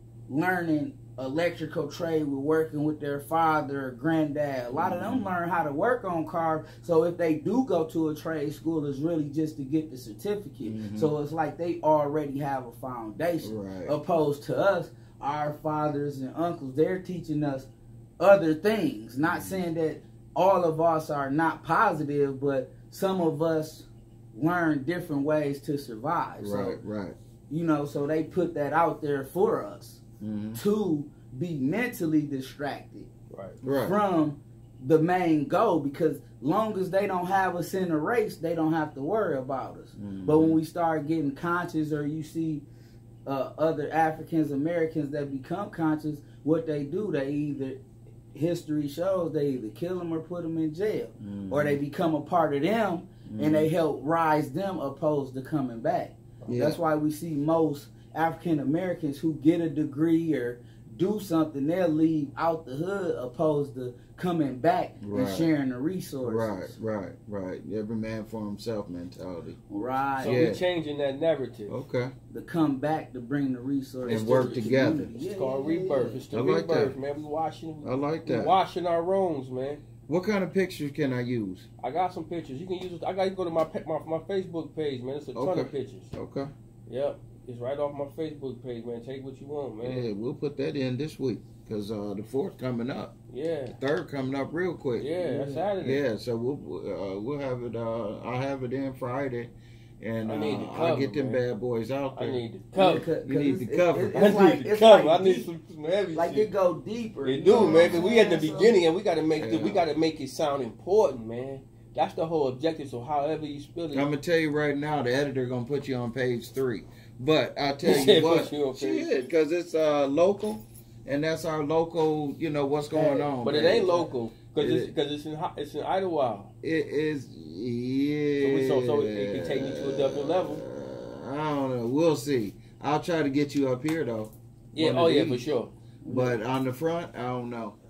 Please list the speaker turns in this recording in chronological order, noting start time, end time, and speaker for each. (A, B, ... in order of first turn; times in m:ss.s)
0:00.3-0:26.8 A
0:04.7-0:05.3 B
0:10.6-0:11.1 B
0:13.4-0:14.0 B
0:19.3-0:19.6 B
0:26.4-0:27.2 B
0:27.5-0:30.0 A
0:30.2-0:30.6 B
0:30.6-0:33.1 A
0:33.3-0:33.6 C
0:33.6-0:34.0 B
0:33.8-0:42.6 A
0:40.0-0:40.6 B
0:43.3-0:47.8 A
0:48.3-1:06.7 A
0:51.2-0:51.8 B
0:53.3-0:53.7 B
0:56.4-0:56.8 B
1:05.0-1:05.5 B
1:06.2-1:09.6 B
1:09.7-1:10.5 A
1:10.2-1:10.6 B
1:10.2-1:11.8 C
1:11.7-1:12.1 B
1:12.3-1:16.2 A
1:14.0-1:15.1 B
1:14.1-1:19.8 C
1:16.3-1:17.0 B
1:17.8-1:18.6 B
1:20.1-1:21.7 B
1:21.8-1:26.1 C
1:25.4-1:26.5 B
1:26.9-1:30.1 C
1:29.8-1:33.2 B
1:33.3-1:33.8 C
1:33.7-1:35.1 B
1:35.0-1:36.0 C
1:35.2-1:35.7 A
1:35.8-1:42.4 B
1:40.2-1:41.4 C
1:42.2-1:43.1 C
1:42.8-1:45.5 A
1:43.2-1:44.4 B
1:44.1-1:46.5 C
1:46.2-1:48.7 A
1:47.2-1:54.1 C
1:47.5-1:48.0 B
1:49.4-1:49.9 B
1:53.9-2:04.9 B
1:57.8-1:59.1 C
2:02.9-2:03.7 A
2:03.4-2:06.5 C
2:06.6-2:15.4 B
2:08.4-2:10.6 C
2:14.8-2:15.7 C
2:16.0-2:16.4 A
2:16.1-2:17.8 B